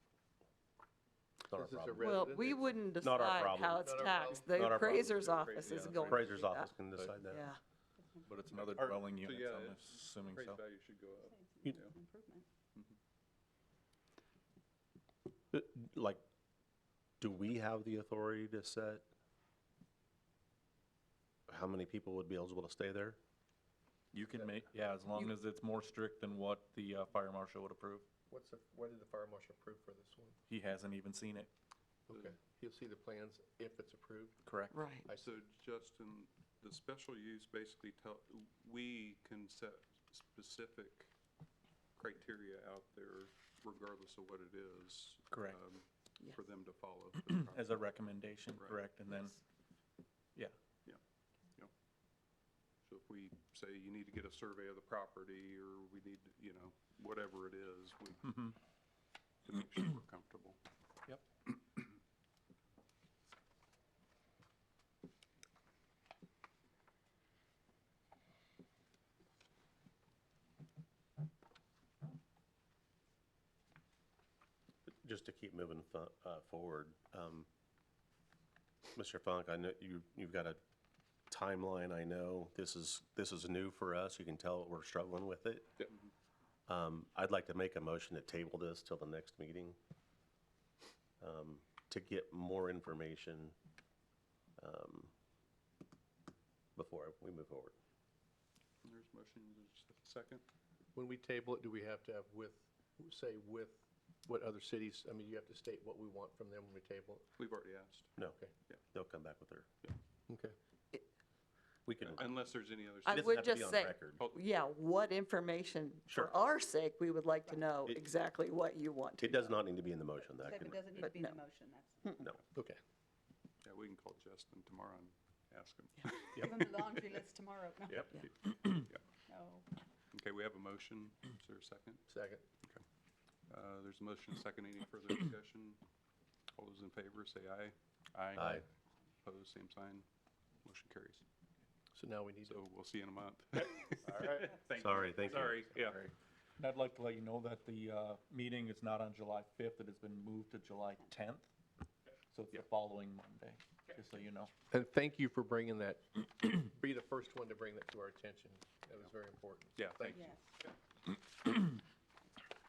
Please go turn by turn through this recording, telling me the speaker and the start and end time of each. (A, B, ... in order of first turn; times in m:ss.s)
0:01.5-0:02.1 A
0:01.5-0:02.8 B
0:02.0-0:06.7 C
0:03.0-0:03.8 A
0:03.5-0:04.6 B
0:04.5-0:07.5 A
0:04.9-0:06.4 D
0:07.3-0:07.6 C
0:08.0-0:08.7 E
0:08.2-0:10.6 F
0:08.5-0:11.9 D
0:11.2-0:12.5 E
0:15.5-0:16.2 A
0:17.2-0:19.1 A
0:21.5-0:23.2 A
0:24.1-0:28.1 F
0:28.3-0:30.4 B
0:30.5-0:31.5 F
0:32.1-0:34.4 B
0:34.4-0:35.0 F
0:34.7-0:35.1 C
0:35.0-0:35.4 B
0:35.1-0:41.1 D
0:42.0-0:47.8 D
0:45.3-0:45.6 F
0:46.2-0:46.4 C
0:47.2-0:49.4 F
0:52.8-0:58.3 D
0:58.2-0:58.5 F
0:59.4-1:00.6 D
1:14.8-1:17.5 A
1:18.9-1:20.6 A
1:21.3-1:25.7 A
1:26.7-1:29.8 A
1:31.2-1:33.5 A
1:34.6-1:35.1 A
1:36.8-1:37.7 A
1:38.8-1:40.4 D
1:40.9-1:47.2 B
1:47.4-1:48.8 D
1:48.9-1:49.7 A
1:50.3-1:50.6 B
1:51.9-1:52.4 A
1:52.0-1:53.4 D
1:53.0-1:59.5 C
1:53.1-1:54.2 A
1:56.1-1:56.4 A
1:57.4-1:57.7 E
1:57.9-1:58.2 A
1:59.2-2:01.0 A
2:00.2-2:02.2 E
2:01.0-2:01.4 C
2:02.5-2:02.8 B
2:03.6-2:07.0 D
2:06.4-2:08.1 E
2:07.9-2:09.0 D
2:09.3-2:09.7 E
2:10.1-2:12.0 D
2:12.1-2:12.4 B
2:13.5-2:15.8 D
2:16.6-2:18.6 D
2:19.2-2:20.0 D
2:20.6-2:21.2 D
2:21.9-2:22.6 B
2:22.5-2:26.0 D
2:24.0-2:24.4 F
2:24.7-2:25.6 A
2:25.5-2:31.5 F
2:32.3-2:34.5 F
2:34.7-2:40.3 B
2:39.8-2:40.4 D
2:40.1-2:40.5 E